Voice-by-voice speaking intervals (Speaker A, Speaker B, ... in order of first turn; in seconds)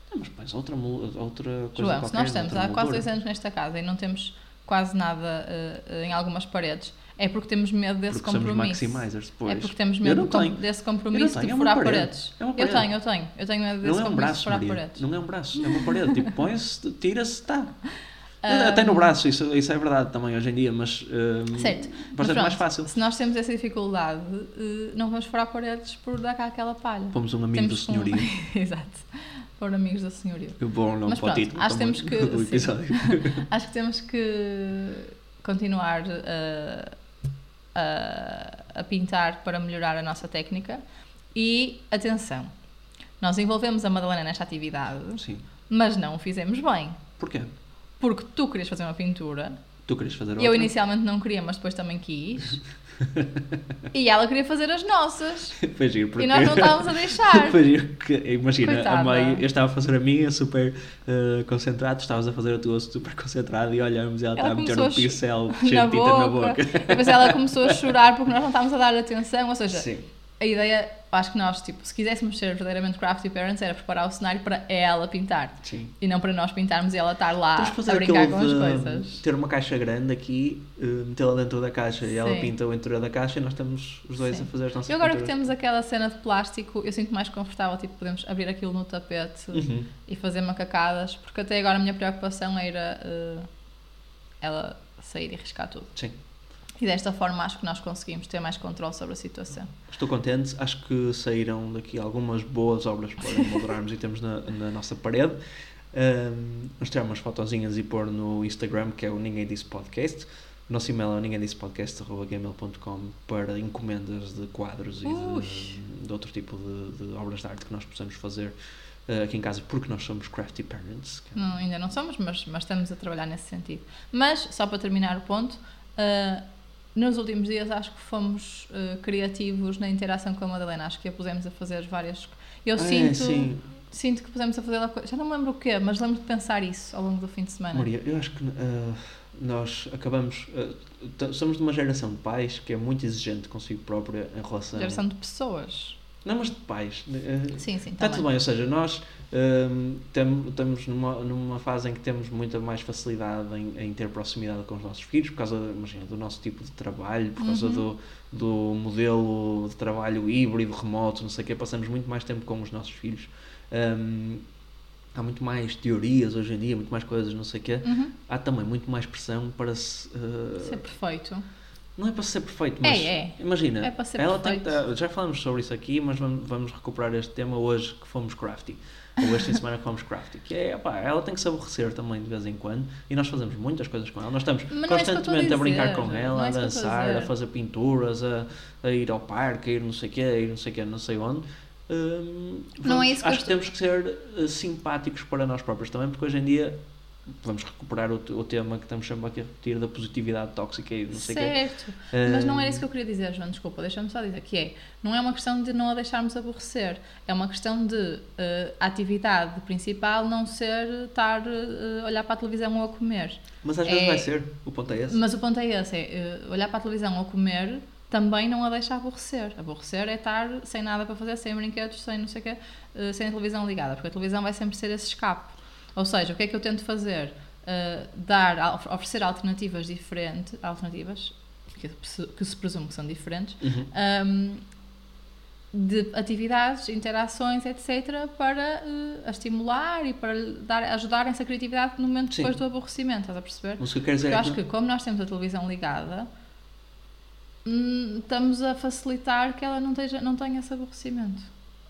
Speaker A: 0.1-3.0, 8.1-12.9, 13.8-17.8, 18.5-22.9, 27.1-28.3, 30.6-33.5, 45.2-45.4, 47.2-47.5, 49.9-50.7, 53.0-53.6, 55.6-68.0, 69.7-70.0, 75.6-75.9, 77.6-85.4, 89.5-89.9, 99.9-105.4, 105.9-118.5, 119.1-121.6, 132.8-133.6, 137.7-145.0, 146.2-164.4, 165.1-170.8, 172.0-196.8, 197.3-201.6, 202.1-202.8, 213.6-215.2, 233.6-233.9, 243.8-244.6
Speaker B: 1.8-15.0, 15.6-16.1, 18.4-19.1, 21.5-37.0, 37.8-40.8, 41.3-42.5, 43.2-47.0, 48.0-49.6, 50.4-52.6, 53.9-55.6, 56.2-57.6, 58.6-59.4, 64.4-69.9, 70.4-79.2, 82.1-82.5, 84.2-93.5, 94.4-95.9, 96.8-99.7, 115.0-115.8, 121.3-126.4, 127.0-137.9, 144.7-146.0, 147.6-148.3, 157.4-157.8, 167.8-168.1, 170.6-171.5, 172.8-174.8, 184.7-187.3, 192.8-193.6, 201.1-214.3, 215.1-234.6, 235.7-246.3, 247.7-251.5